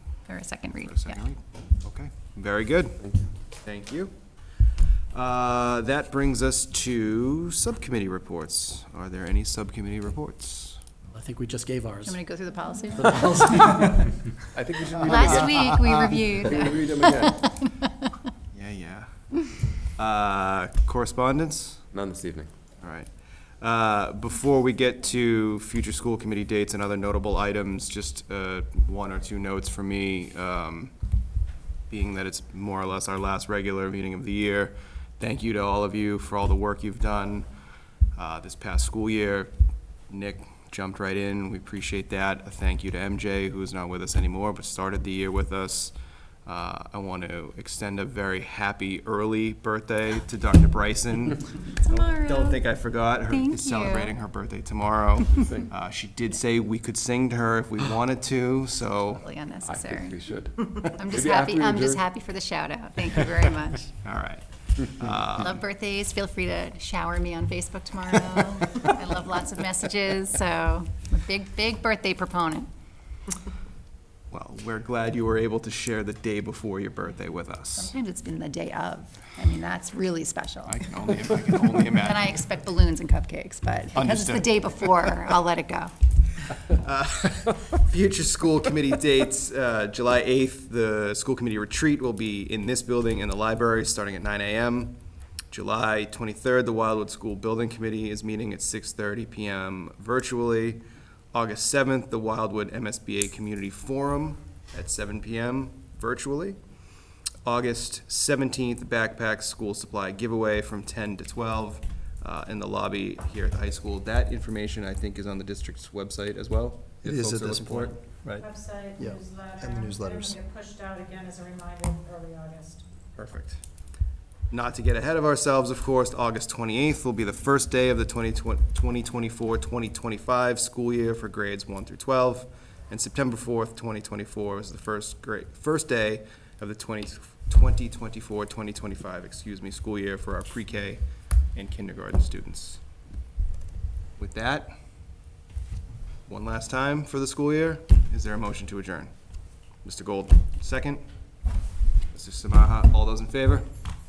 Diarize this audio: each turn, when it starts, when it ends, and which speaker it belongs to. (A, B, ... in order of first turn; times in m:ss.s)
0:00.3-0:01.2 A
0:00.8-0:03.0 B
0:03.0-0:03.3 C
0:03.6-0:04.1 B
0:05.1-0:10.8 B
0:11.1-0:12.2 D
0:12.0-0:14.0 A
0:12.9-0:14.2 D
0:14.5-0:17.5 C
0:15.0-0:18.1 A
0:18.5-0:21.9 B
0:21.9-0:22.5 C
0:22.8-0:30.9 B
0:31.9-0:37.4 B
0:38.2-0:39.5 B
0:40.1-0:45.9 B
0:46.4-0:59.2 B
0:51.8-0:52.6 A
0:53.3-0:54.1 A
0:59.1-1:00.2 A
0:59.6-1:02.0 C
1:00.8-1:03.9 A
1:04.0-1:05.6 B
1:05.3-1:12.7 A
1:14.3-1:17.9 B
1:17.7-1:21.3 A
1:20.7-1:22.4 B
1:21.8-1:25.9 A
1:23.9-1:25.3 B
1:26.7-1:34.9 B
1:35.5-1:46.6 B
1:47.4-1:58.2 B
1:57.0-2:00.4 E
1:58.4-2:02.8 F
2:03.2-2:03.6 B
2:04.5-2:21.0 B
2:21.5-2:22.8 B
2:24.2-2:24.7 B
2:26.3-2:29.1 B
2:29.7-2:31.0 B
2:32.1-2:33.6 B